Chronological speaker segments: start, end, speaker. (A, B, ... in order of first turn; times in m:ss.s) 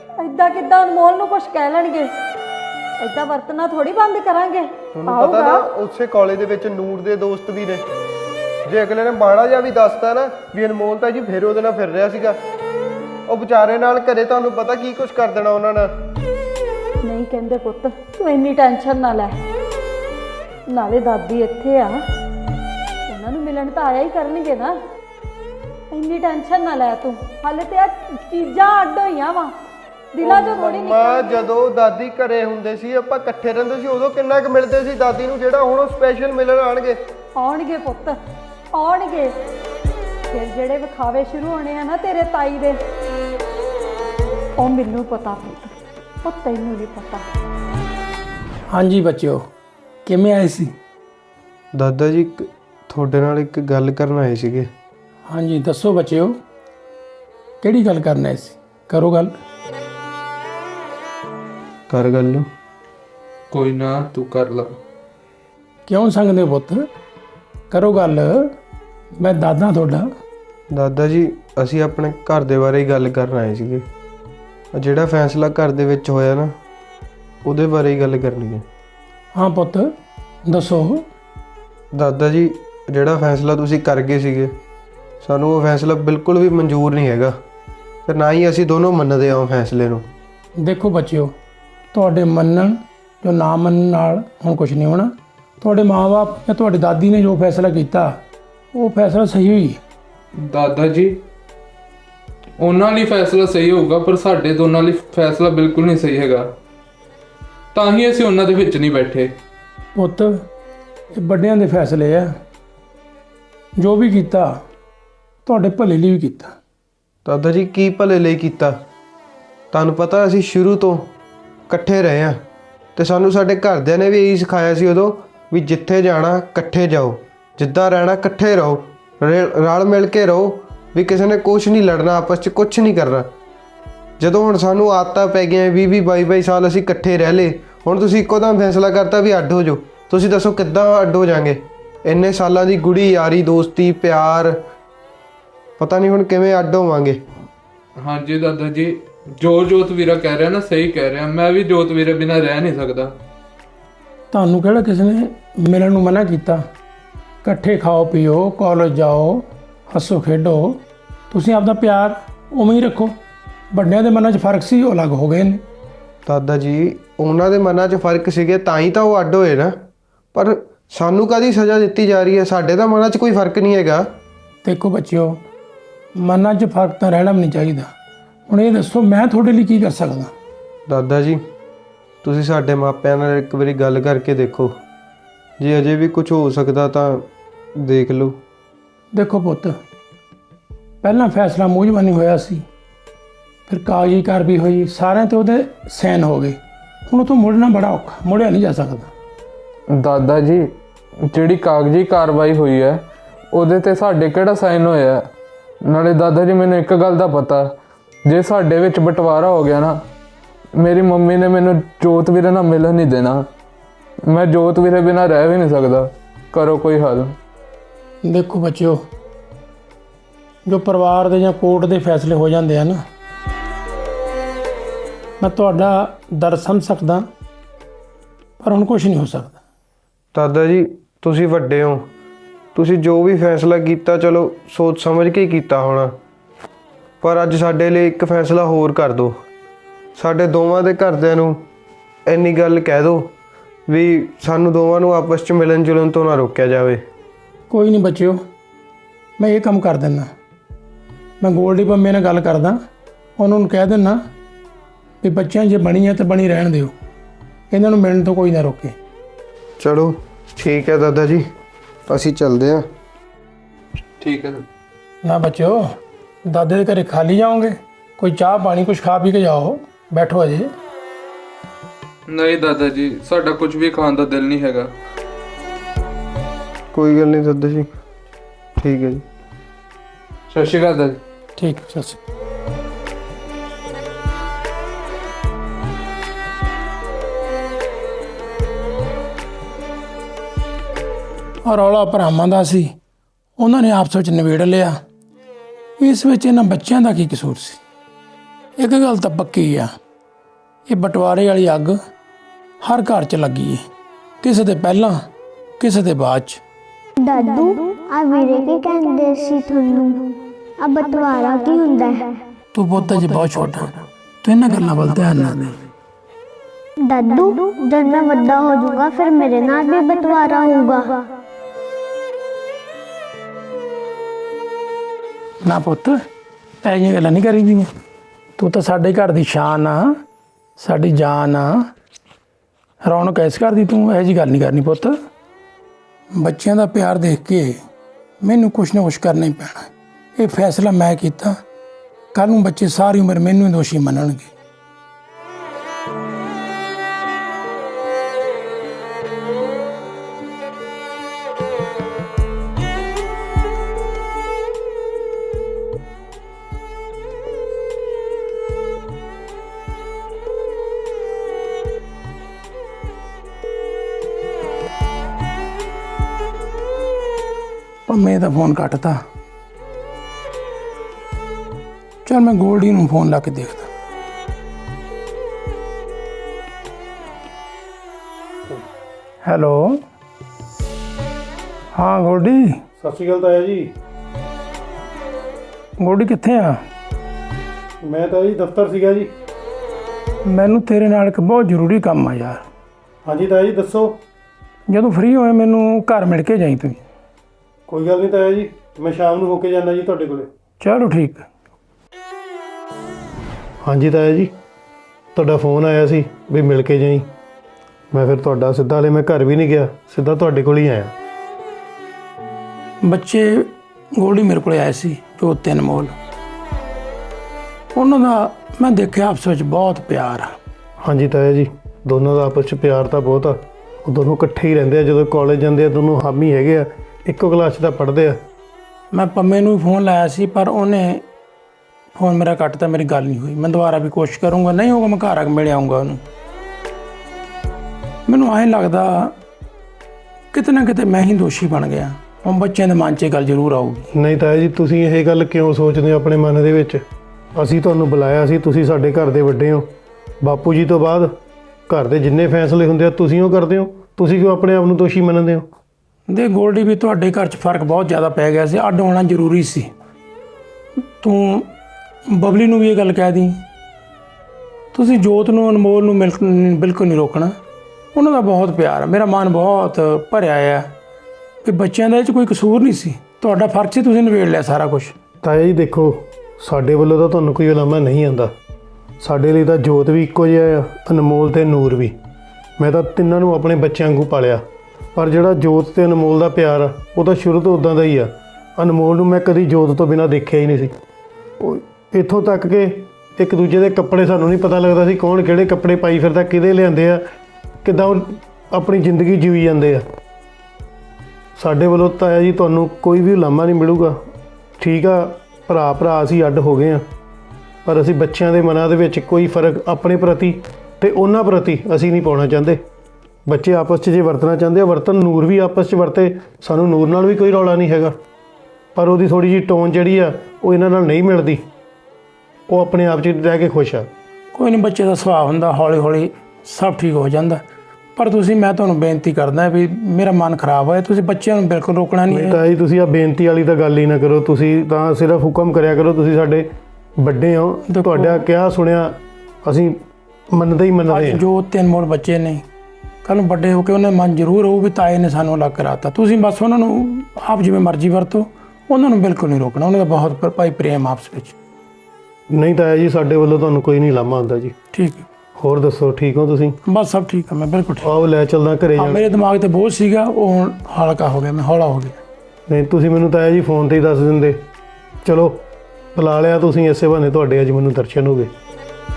0:00.2-0:02.1 A
0:03.0-0:05.6 A
0:04.9-0:07.8 B
0:08.6-0:12.4 B
0:13.3-0:15.9 B
0:17.0-0:19.4 A
0:20.7-0:22.0 A
0:23.1-0:24.7 A
0:25.9-0:29.5 A
0:30.1-0:31.4 A
0:30.2-0:37.0 B
0:37.3-0:38.2 A
0:38.7-0:39.3 A
0:40.3-0:42.8 A
0:44.6-0:47.2 A
0:48.7-0:49.4 C
0:50.0-0:50.7 C
0:51.7-0:54.7 B
0:55.3-0:56.3 C
0:57.6-0:59.3 C
1:01.9-1:02.5 B
1:03.5-1:04.8 D
1:05.9-1:06.9 C
1:07.7-1:08.4 C
1:09.2-1:10.1 C
1:10.7-1:13.8 B
1:14.7-1:16.5 B
1:17.4-1:18.6 B
1:19.3-1:19.9 C
1:20.4-1:21.0 C
1:21.9-1:24.6 B
1:25.2-1:27.4 B
1:28.1-1:30.1 B
1:30.6-1:31.3 C
1:31.9-1:38.2 C
1:38.7-1:39.8 C
1:40.4-1:41.2 D
1:42.6-1:46.5 D
1:47.7-1:49.3 D
1:49.9-1:50.4 C
1:51.1-1:52.3 C
1:53.8-1:54.6 C
1:55.4-1:56.5 C
1:57.2-1:58.8 B
1:59.7-2:01.1 B
2:01.7-2:02.4 B
2:03.0-2:13.3 B
2:14.2-2:24.6 B
2:25.8-2:27.2 B
2:28.0-2:33.2 D
2:34.3-2:36.6 C
2:37.4-2:40.8 C
2:41.3-2:43.1 C
2:43.7-2:45.6 C
2:46.2-2:54.1 B
2:54.6-2:55.4 C
2:56.2-2:57.9 C
2:58.5-3:00.3 C
3:00.9-3:01.4 B
3:02.2-3:04.7 B
3:05.6-3:07.3 B
3:07.8-3:08.4 B
3:09.1-3:09.7 C
3:11.0-3:12.6 C
3:13.7-3:16.6 C
3:17.1-3:19.1 C
3:19.9-3:20.7 D
3:21.3-3:25.3 D
3:25.8-3:27.7 D
3:28.2-3:30.0 D
3:30.8-3:33.5 D
3:34.3-3:37.4 D
3:38.2-3:39.0 C
3:40.6-3:43.0 C
3:45.4-3:47.2 C
3:48.6-3:49.6 C
3:50.3-3:52.1 B
3:52.7-3:56.1 B
3:57.2-3:59.3 B
4:00.2-4:01.6 B
4:02.3-4:03.3 B
4:03.9-4:07.0 B
4:07.7-4:08.4 C
4:09.4-4:10.3 C
4:11.4-4:12.8 C
4:13.4-4:14.2 C
4:15.2-4:16.9 C
4:17.7-4:18.9 C
4:19.8-4:21.4 B
4:22.1-4:22.8 B
4:24.2-4:24.6 D
4:25.2-4:25.8 C
4:26.5-4:30.7 C
4:32.3-4:34.9 D
4:36.9-4:37.9 B
4:38.8-4:39.2 B
4:40.5-4:41.2 D
4:41.6-4:42.2 C
4:51.6-4:52.9 C
4:53.6-4:54.9 C
4:56.0-4:57.8 C
4:58.8-4:59.9 C
5:00.9-5:02.0 C
5:02.8-5:03.8 C
5:04.4-5:05.2 C
5:05.8-5:06.6 C
5:07.2-5:12.4 E
5:12.7-5:15.8 C
5:17.0-5:21.2 E
5:25.6-5:26.2 C
5:26.8-5:27.9 C
5:28.6-5:30.1 C
5:30.8-5:31.8 C
5:33.0-5:35.1 C
5:36.4-5:37.7 C
5:38.4-5:41.6 C
5:42.3-5:44.5 C
6:08.1-6:09.2 C
6:12.2-6:13.9 C
6:19.4-6:20.0 C
6:21.9-6:22.8 C
6:23.0-6:23.9 F
6:26.0-6:26.8 C
6:28.0-6:29.3 F
6:30.4-6:32.6 C
6:33.2-6:34.2 F
6:34.9-6:37.0 C
6:37.9-6:40.5 F
6:40.8-6:41.4 C
6:43.8-6:44.5 F
6:45.3-6:47.3 F
6:48.1-6:51.1 F
6:53.0-6:56.1 C
6:57.9-7:00.5 C
7:01.0-7:08.4 F
7:09.1-7:11.2 C
7:12.2-7:16.2 C
7:18.3-7:19.3 C
7:20.5-7:24.1 C
7:24.1-7:27.0 F
7:27.6-7:29.9 F
7:30.4-7:31.3 F
7:31.9-7:35.7 F
7:36.3-7:39.9 C
7:41.2-7:41.7 C
7:42.3-7:43.6 C
7:44.9-7:47.5 C
7:48.1-7:50.9 C
7:51.6-7:55.1 C
7:55.4-7:58.5 F
7:59.2-8:02.1 F
8:02.8-8:04.6 F
8:05.1-8:10.9 F
8:11.6-8:17.2 F
8:17.8-8:20.0 F
8:21.6-8:24.2 F
8:24.8-8:27.0 F
8:27.8-8:32.8 F
8:33.5-8:38.1 F
8:38.9-8:41.6 F
8:42.7-8:44.1 F
8:44.5-8:47.6 C
8:48.2-8:52.6 C
8:52.3-8:56.7 F
8:57.2-9:00.0 F
8:57.9-8:58.4 C
9:00.5-9:01.4 F
9:01.1-9:02.6 C
9:03.2-9:11.5 C
9:12.5-9:14.7 F
9:14.9-9:15.2 C
9:15.6-9:16.8 F
9:16.9-9:18.1 C
9:18.0-9:19.2 F
9:19.0-9:22.2 C
9:22.7-9:24.6 F
9:25.2-9:25.6 F
9:26.1-9:28.5 F